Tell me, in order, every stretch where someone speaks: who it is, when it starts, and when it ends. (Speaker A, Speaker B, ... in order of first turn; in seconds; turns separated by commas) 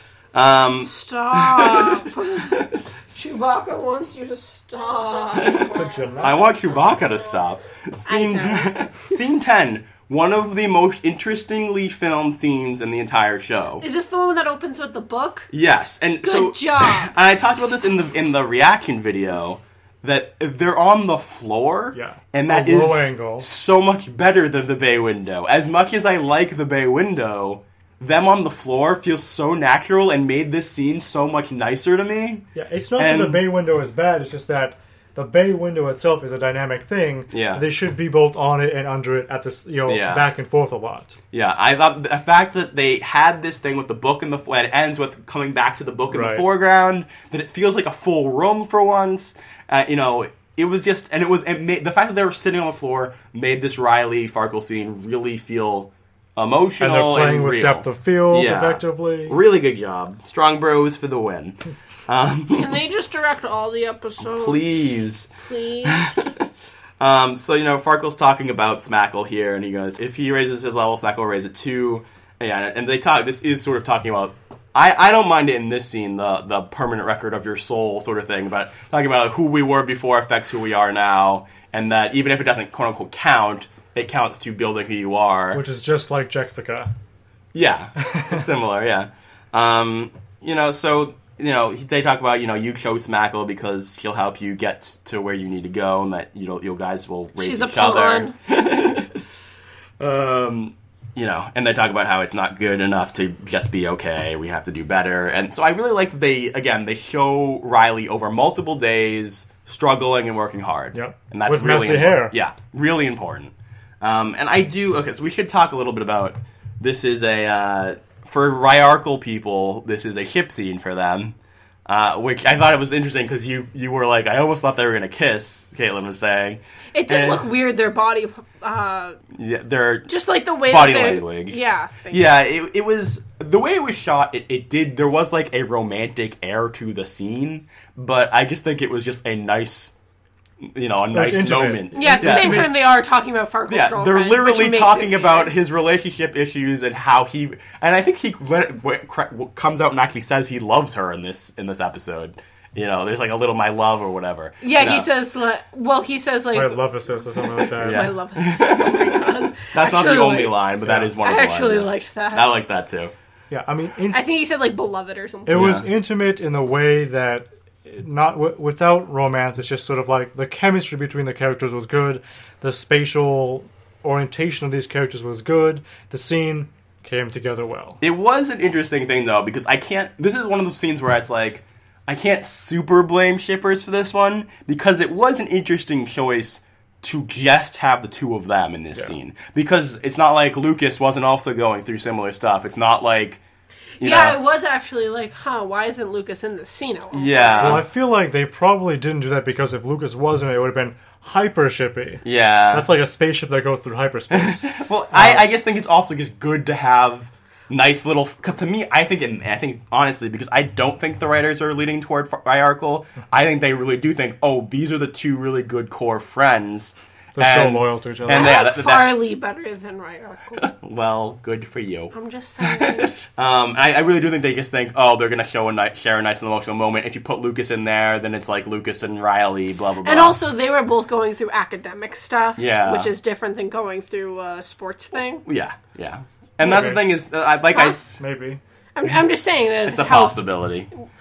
Speaker A: 0.3-3.4, Speaker B: 0.8-6.1, Speaker A: 5.4-13.8, Speaker C: 5.7-6.4, Speaker B: 8.1-9.2, Speaker B: 13.8-15.5, Speaker A: 15.5-32.5, Speaker B: 16.2-17.1, Speaker C: 21.9-23.5, Speaker C: 32.5-41.2, Speaker A: 33.0-33.4, Speaker A: 37.3-37.6, Speaker A: 39.9-40.3, Speaker A: 41.3-62.8, Speaker C: 46.1-46.5, Speaker C: 56.8-59.4, Speaker B: 62.5-64.8, Speaker A: 64.2-65.3, Speaker B: 65.4-66.2, Speaker A: 65.8-66.5, Speaker A: 67.0-85.6, Speaker C: 85.5-86.9, Speaker A: 87.5-99.2, Speaker C: 88.0-88.4, Speaker B: 97.4-98.3, Speaker A: 100.0-121.4, Speaker C: 110.9-112.3, Speaker A: 121.9-127.4, Speaker B: 126.9-129.2, Speaker A: 129.3-130.1, Speaker B: 130.1-132.3, Speaker A: 130.7-131.6, Speaker A: 132.1-139.9, Speaker A: 140.6-142.7, Speaker C: 141.1-142.7, Speaker B: 141.9-145.5, Speaker A: 143.7-155.1, Speaker B: 154.6-160.6, Speaker C: 156.5-158.1, Speaker A: 157.7-163.1, Speaker C: 160.8-161.1, Speaker B: 161.2-162.5, Speaker C: 163.5-164.2, Speaker B: 164.1-165.8, Speaker C: 165.5-178.0, Speaker A: 165.5-165.9, Speaker A: 178.0-193.4, Speaker A: 194.0-194.4, Speaker B: 194.0-197.8, Speaker A: 197.1-197.8, Speaker C: 197.6-205.5, Speaker A: 202.2-202.9, Speaker A: 204.3-219.2, Speaker C: 217.4-218.5, Speaker B: 218.3-220.7, Speaker A: 220.6-230.4, Speaker B: 222.1-223.2, Speaker B: 230.0-235.4, Speaker A: 232.6-233.1, Speaker A: 235.4-238.2, Speaker C: 236.6-237.1, Speaker B: 237.7-238.0, Speaker C: 238.2-238.6, Speaker B: 238.9-240.4, Speaker A: 239.8-240.9